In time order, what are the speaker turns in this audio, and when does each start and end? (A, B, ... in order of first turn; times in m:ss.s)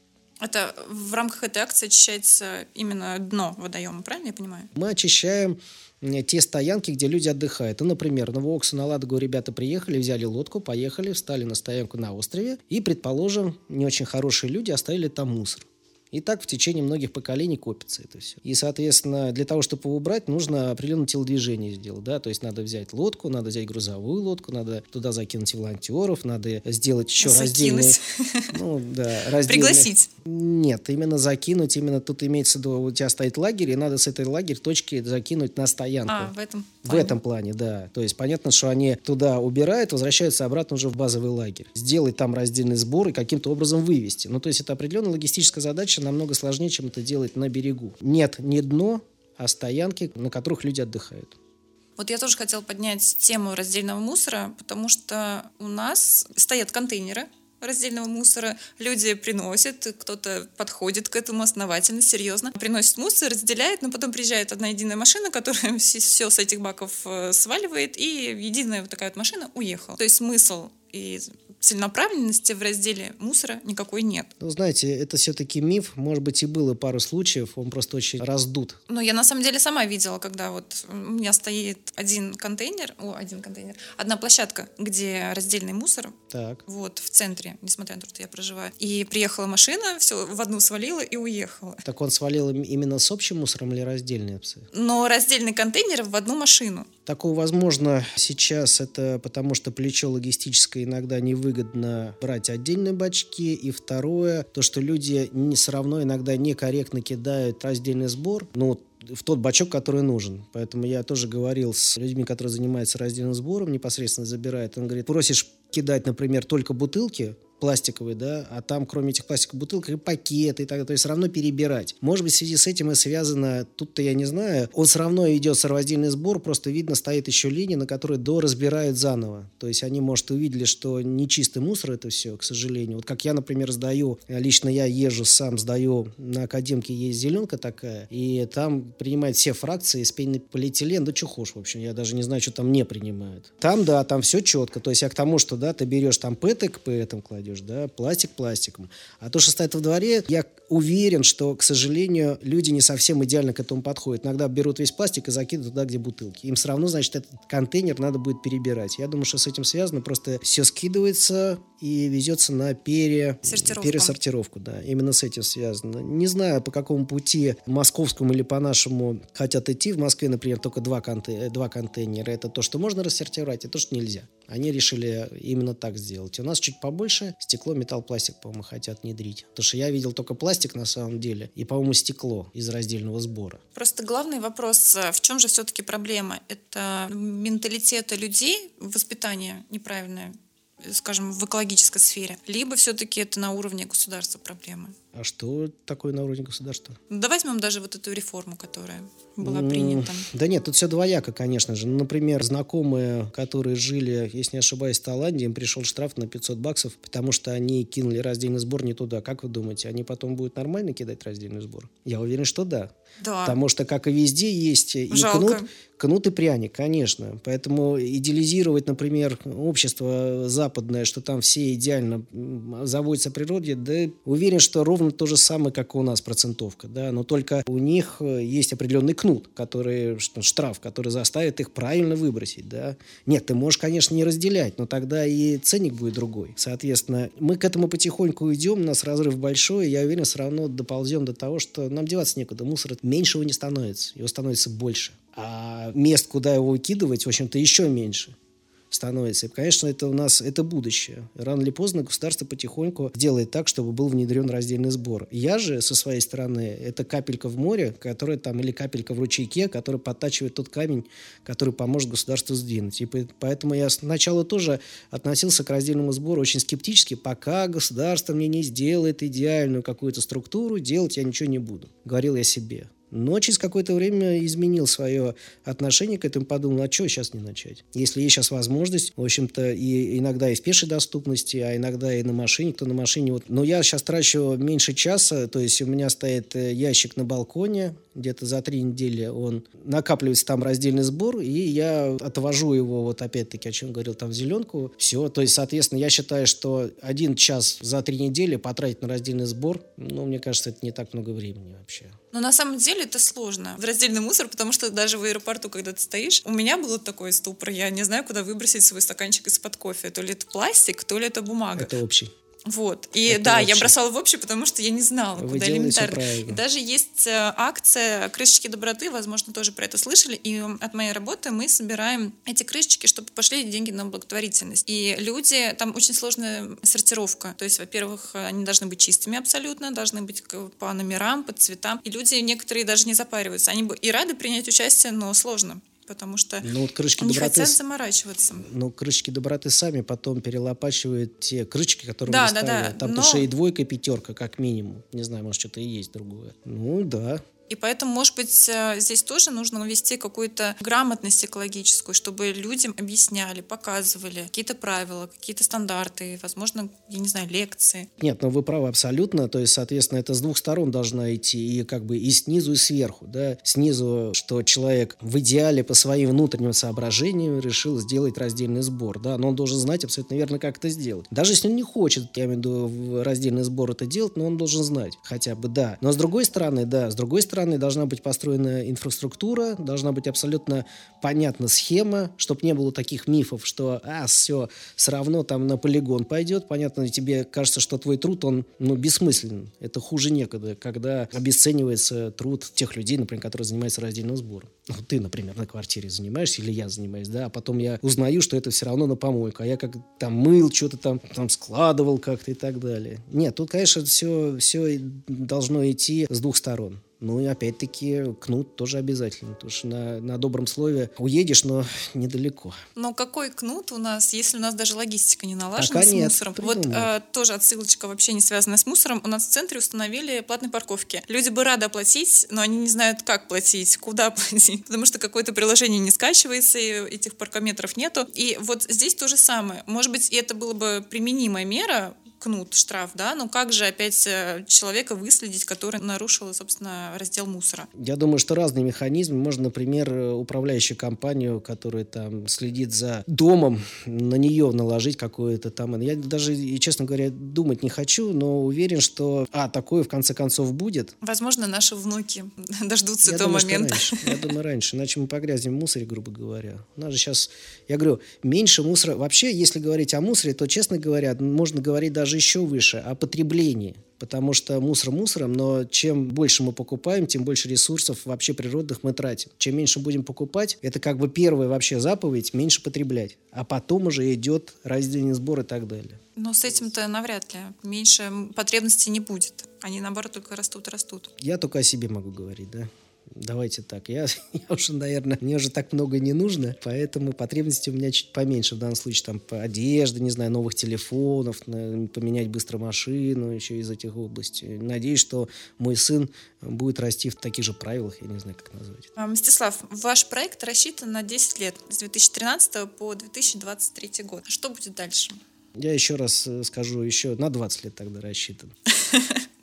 0:00.4-0:04.7 A
0:04.8-0:28.0 B
0:27.2-0:28.6 A
0:28.5-0:36.3 B
0:29.4-0:30.1 A
0:36.1-0:37.2 A
0:36.8-0:51.4 B
0:52.0-1:14.3 A
1:14.4-1:18.8 B
1:18.9-1:31.8 A
1:26.3-1:26.6 B
1:31.8-1:34.7 B
1:34.7-1:36.9 A
1:37.1-3:03.6 B
2:43.4-2:44.2 A
3:03.8-3:15.0 A
3:15.1-3:17.0 B
3:17.1-3:20.3 A
3:19.4-3:32.9 B
3:33.2-3:33.6 A
3:33.4-4:08.4 B
3:35.1-3:35.7 A
4:08.9-5:02.2 B
5:02.3-5:11.9 A
5:11.8-5:12.3 B
5:12.7-5:38.7 A
5:13.3-5:13.9 B
5:15.4-5:16.6 B
5:36.6-5:37.8 B
5:38.6-5:47.4 B
5:42.3-5:43.5 A
5:47.7-5:58.1 A
5:58.2-6:52.8 B
6:53.0-7:17.9 A
6:55.8-6:57.1 B
7:18.0-7:31.1 B
7:31.2-7:34.5 A
7:33.2-7:56.2 B
7:56.4-8:01.3 A
8:01.4-8:19.1 B
8:19.2-8:25.4 A
8:25.8-8:28.7 B
8:29.1-8:29.4 A